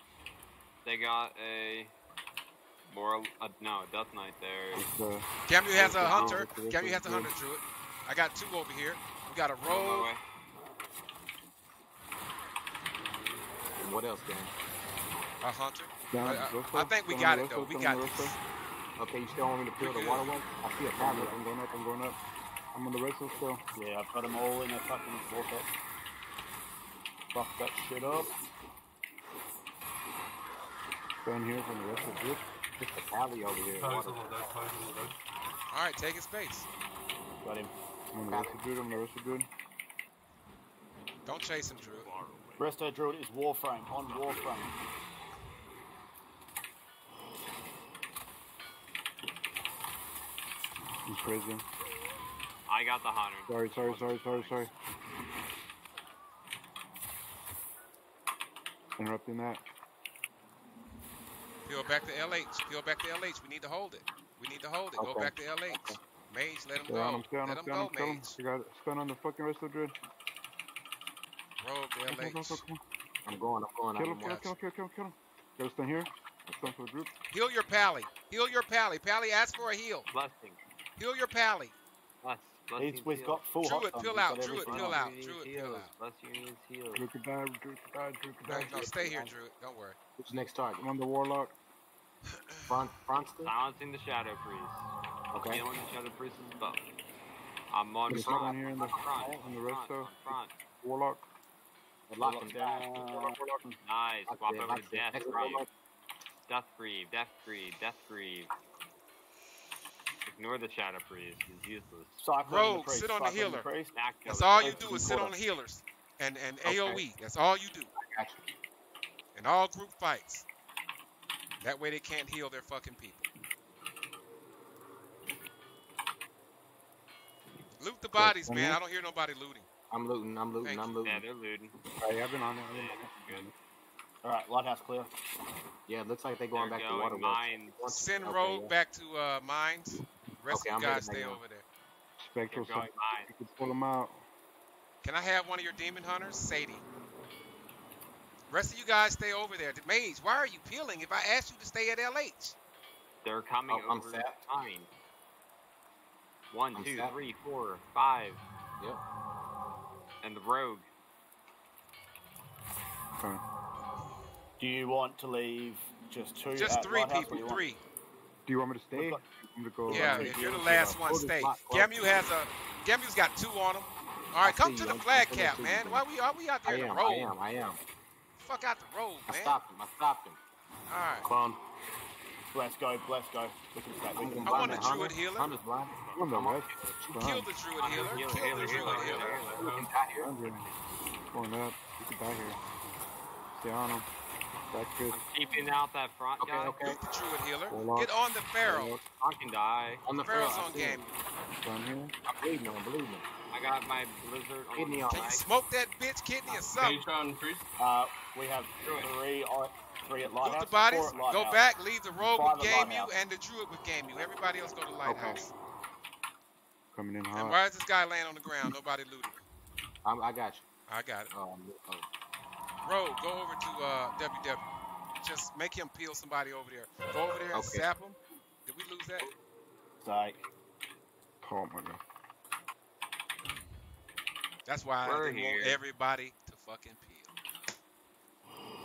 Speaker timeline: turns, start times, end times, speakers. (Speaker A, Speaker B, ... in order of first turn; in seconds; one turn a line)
Speaker A: 0.8-1.9
Speaker A: 2.9-4.8
Speaker B: 4.7-5.3
Speaker C: 5.5-10.1
Speaker D: 5.7-7.2
Speaker B: 6.0-7.3
Speaker A: 9.6-10.2
Speaker D: 13.8-14.5
Speaker C: 15.4-18.3
Speaker B: 16.1-18.4
Speaker D: 19.0-21.5
Speaker C: 19.8-20.3
Speaker B: 21.1-22.2
Speaker B: 22.7-23.6
Speaker E: 23.7-25.7
Speaker E: 27.3-28.3
Speaker B: 31.2-32.5
Speaker D: 32.8-34.3
Speaker F: 33.8-35.2
Speaker C: 35.7-36.7
Speaker E: 37.4-37.7
Speaker B: 38.1-39.5
Speaker D: 38.3-38.6
Speaker C: 41.2-42.1
Speaker A: 41.8-42.7
Speaker E: 42.6-44.7
Speaker B: 51.0-51.6
Speaker A: 52.6-54.7
Speaker B: 53.5-54.7
Speaker B: 59.0-59.6
Speaker C: 61.6-68.4
Speaker D: 65.0-66.0
Speaker B: 66.9-69.9
Speaker C: 71.6-72.6
Speaker B: 72.1-72.8
Speaker D: 73.2-74.4
Speaker B: 73.9-77.1
Speaker C: 74.2-74.5
Speaker D: 76.5-76.8
Speaker C: 77.3-80.1
Speaker A: 80.1-80.6
Speaker C: 81.0-81.7
Speaker A: 82.2-83.5
Speaker E: 82.8-85.0
Speaker C: 83.6-85.9
Speaker A: 84.5-87.1
Speaker B: 86.9-89.3
Speaker C: 88.5-90.0
Speaker D: 90.2-90.8
Speaker B: 90.8-91.5
Speaker D: 92.7-93.5
Speaker A: 93.4-96.9
Speaker D: 95.3-95.6
Speaker A: 97.7-100.5
Speaker B: 98.1-101.2
Speaker D: 98.1-99.4
Speaker D: 102.1-103.4
Speaker E: 102.2-103.8
Speaker A: 103.8-105.7
Speaker D: 104.2-105.7
Speaker A: 106.5-108.5
Speaker A: 110.2-112.2
Speaker E: 112.2-115.3
Speaker C: 112.4-113.7
Speaker A: 113.9-114.9
Speaker C: 114.2-117.9
Speaker D: 116.6-117.0
Speaker D: 118.0-118.5
Speaker C: 119.3-120.5
Speaker C: 121.6-123.3
Speaker C: 127.8-129.7
Speaker B: 128.1-128.8
Speaker D: 129.9-131.2
Speaker C: 130.6-131.0
Speaker A: 131.0-131.8
Speaker B: 131.9-133.5
Speaker A: 132.4-133.5
Speaker E: 134.2-135.1
Speaker D: 135.9-138.7
Speaker A: 136.5-137.9
Speaker C: 137.9-141.6
Speaker D: 140.5-141.4
Speaker B: 142.2-144.2
Speaker A: 142.5-143.4
Speaker C: 145.0-146.8
Speaker C: 148.5-152.6
Speaker A: 153.2-154.9
Speaker D: 153.7-154.4
Speaker A: 156.5-158.4
Speaker D: 156.7-157.1
Speaker A: 160.2-160.8
Speaker E: 164.6-167.7
Speaker C: 166.5-167.8
Speaker B: 168.4-170.2
Speaker E: 168.9-169.2
Speaker E: 169.8-171.0
Speaker C: 169.9-177.3
Speaker D: 171.1-172.2
Speaker D: 174.4-176.0
Speaker D: 176.6-177.8
Speaker C: 178.4-179.6
Speaker D: 179.3-180.4
Speaker C: 180.9-181.3
Speaker D: 181.2-181.6
Speaker E: 182.5-185.0
Speaker D: 184.2-187.2
Speaker C: 184.4-185.5
Speaker A: 185.9-186.3
Speaker B: 186.1-187.5
Speaker C: 187.2-189.4
Speaker A: 187.7-189.7
Speaker F: 187.9-189.9
Speaker D: 189.7-190.3
Speaker B: 190.2-190.7
Speaker B: 191.3-192.6
Speaker B: 193.5-194.1
Speaker B: 194.7-195.2
Speaker A: 195.1-196.8
Speaker D: 196.4-197.0
Speaker C: 196.8-198.9
Speaker B: 197.7-198.1
Speaker B: 198.6-199.1
Speaker A: 199.1-200.0
Speaker D: 200.0-201.0
Speaker C: 200.2-201.1
Speaker B: 201.6-202.1
Speaker D: 202.2-203.2
Speaker A: 203.5-205.4
Speaker D: 204.7-205.4
Speaker C: 205.1-207.0
Speaker F: 206.8-207.6
Speaker E: 207.8-211.7
Speaker A: 208.8-209.1
Speaker C: 210.4-215.5
Speaker E: 212.2-213.1
Speaker A: 214.1-214.5
Speaker D: 215.0-215.4
Speaker B: 216.9-217.6
Speaker C: 217.3-219.4
Speaker D: 220.0-220.6
Speaker C: 220.9-221.3
Speaker D: 221.3-222.1
Speaker C: 222.8-224.7
Speaker C: 225.2-229.3
Speaker D: 227.5-227.9
Speaker E: 230.0-230.4
Speaker B: 231.4-232.0
Speaker C: 234.6-237.3
Speaker A: 235.0-235.8